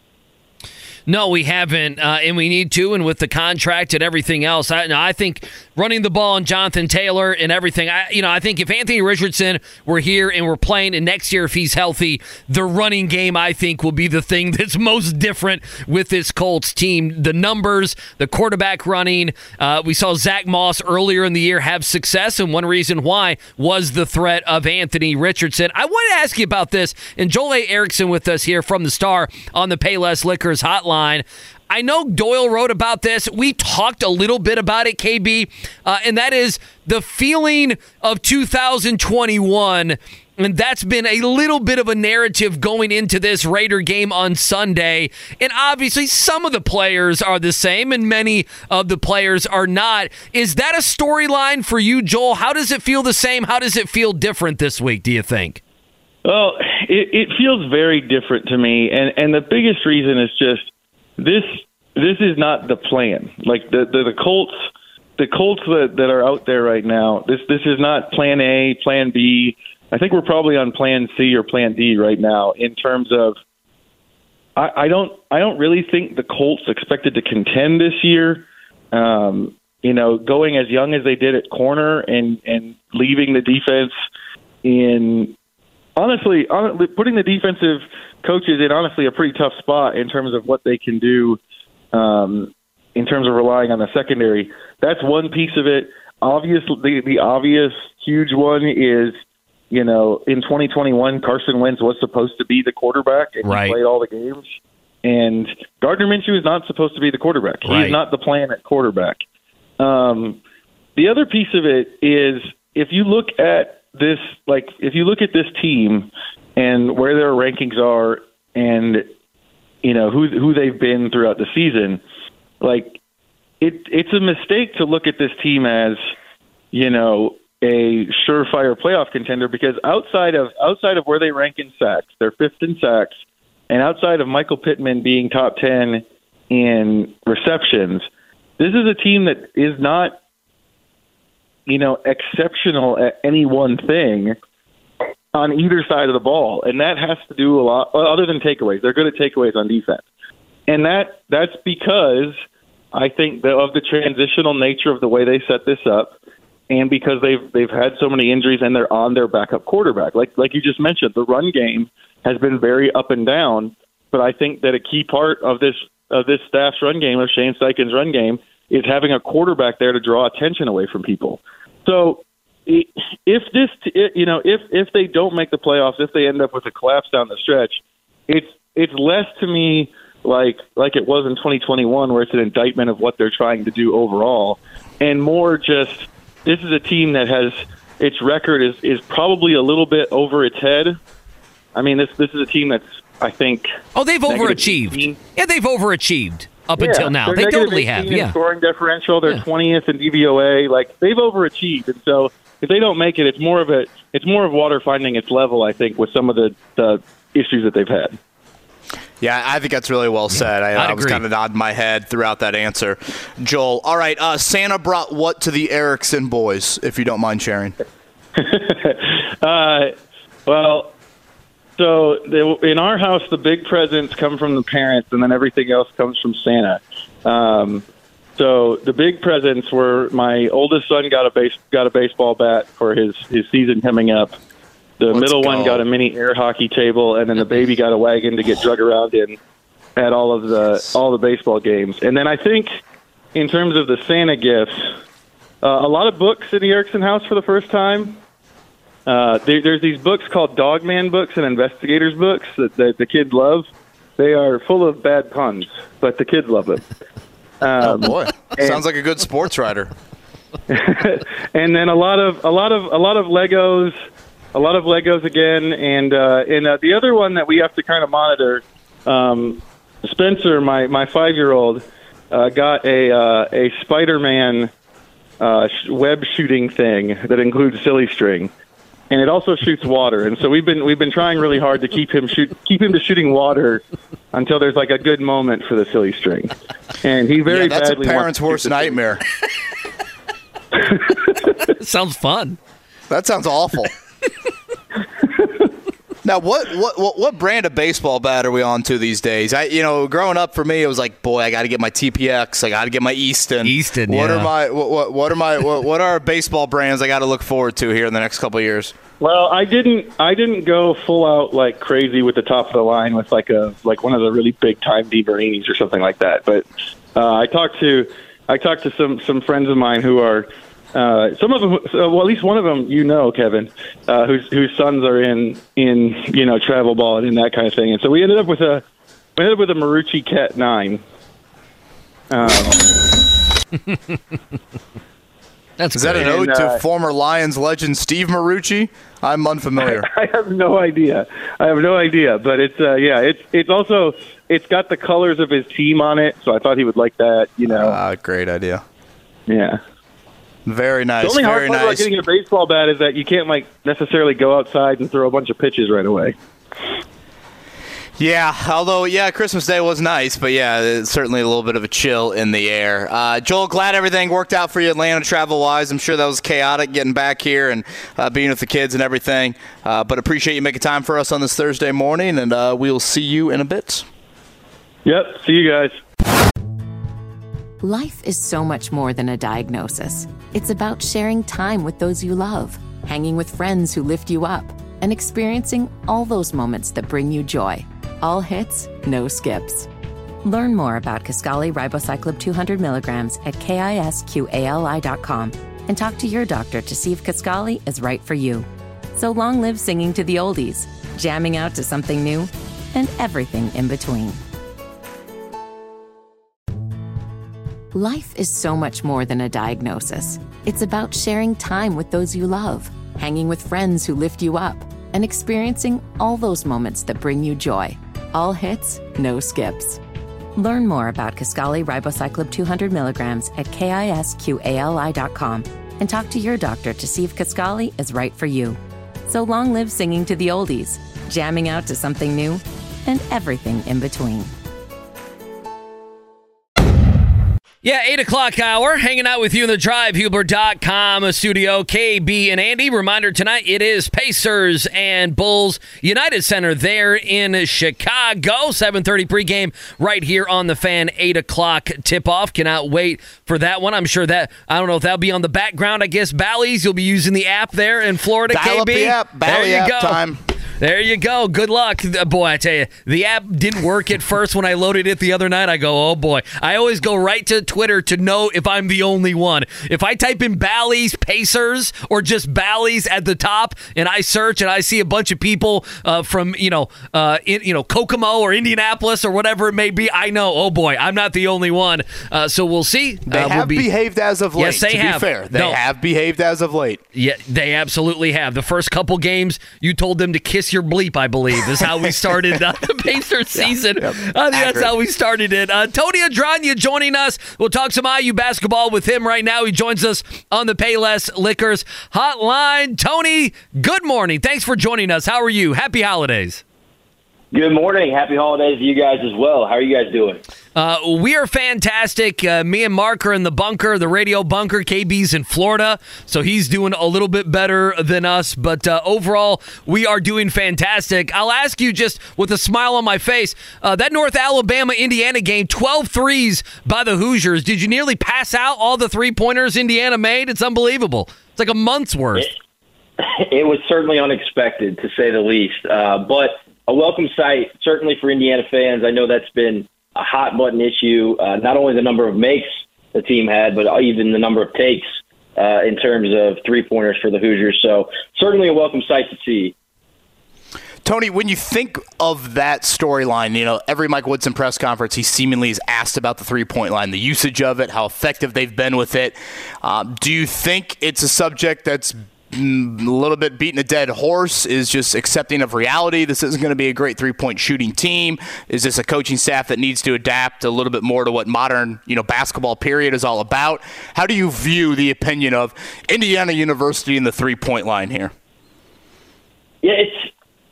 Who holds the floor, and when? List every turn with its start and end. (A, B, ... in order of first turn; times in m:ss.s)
0:01.1-0:55.6 A
0:56.2-1:04.6 B
1:05.2-1:13.4 B
1:14.6-1:23.9 B
1:24.6-1:25.3 B
1:26.0-1:31.4 B
1:31.9-1:39.2 B
1:39.7-1:44.5 B
1:43.4-1:43.8 A
1:45.0-1:49.2 B
1:47.6-1:48.0 A
1:49.8-1:50.4 B
1:51.0-1:59.1 B
1:59.8-2:02.0 B
2:02.6-2:03.0 B
2:03.6-2:06.0 B
2:06.7-2:13.2 B
2:13.7-2:18.0 B
2:18.6-2:20.2 B
2:21.7-2:24.4 B
2:25.3-2:30.0 B
2:30.7-2:32.4 B
2:32.9-2:36.2 B
2:36.7-3:11.0 B
3:11.7-3:13.7 B
3:13.9-3:18.4 A
3:14.3-3:15.2 B
3:16.8-3:28.2 B
3:29.2-3:37.8 C
3:30.3-3:31.2 A
3:38.4-3:39.9 B
3:40.5-3:40.9 B
3:41.8-3:47.8 B
3:48.4-3:54.4 B
3:55.0-3:59.4 B
3:55.1-3:55.8 C
4:00.0-4:02.7 B
4:03.3-4:04.9 B
4:05.6-4:08.2 B
4:09.0-4:16.8 B
4:17.6-4:18.8 B
4:17.8-4:19.9 C
4:20.7-4:24.0 B
4:24.5-4:34.7 B
4:35.4-4:38.5 B
4:39.1-4:49.0 B
4:47.5-4:49.2 C
4:51.7-4:52.6 A
4:53.1-4:53.9 C
4:56.2-5:08.9 C
5:03.6-5:04.5 A
5:09.2-5:28.8 B
5:29.4-5:31.0 B
5:32.3-5:32.8 B
5:35.8-5:36.4 A
5:35.9-5:40.1 C
5:36.2-5:36.8 B
5:39.8-5:48.0 B
5:47.7-5:48.8 C
5:49.5-5:49.8 B
5:50.6-5:52.1 C
5:51.2-5:56.3 B
5:58.2-6:14.1 C
6:15.0-6:16.0 B
6:17.8-6:29.9 D
6:30.4-6:44.4 D
6:47.9-7:00.0 D
7:00.6-7:14.5 D
7:17.8-7:40.2 A
7:38.5-7:40.4 C
7:40.8-8:03.9 A
8:03.3-8:07.0 C
8:04.6-8:05.8 A
8:07.1-8:26.6 A
8:13.6-8:14.9 C
8:27.5-8:30.4 E
8:30.8-8:52.5 A
8:53.2-9:09.7 E
9:11.0-9:38.3 C
9:39.8-9:40.3 E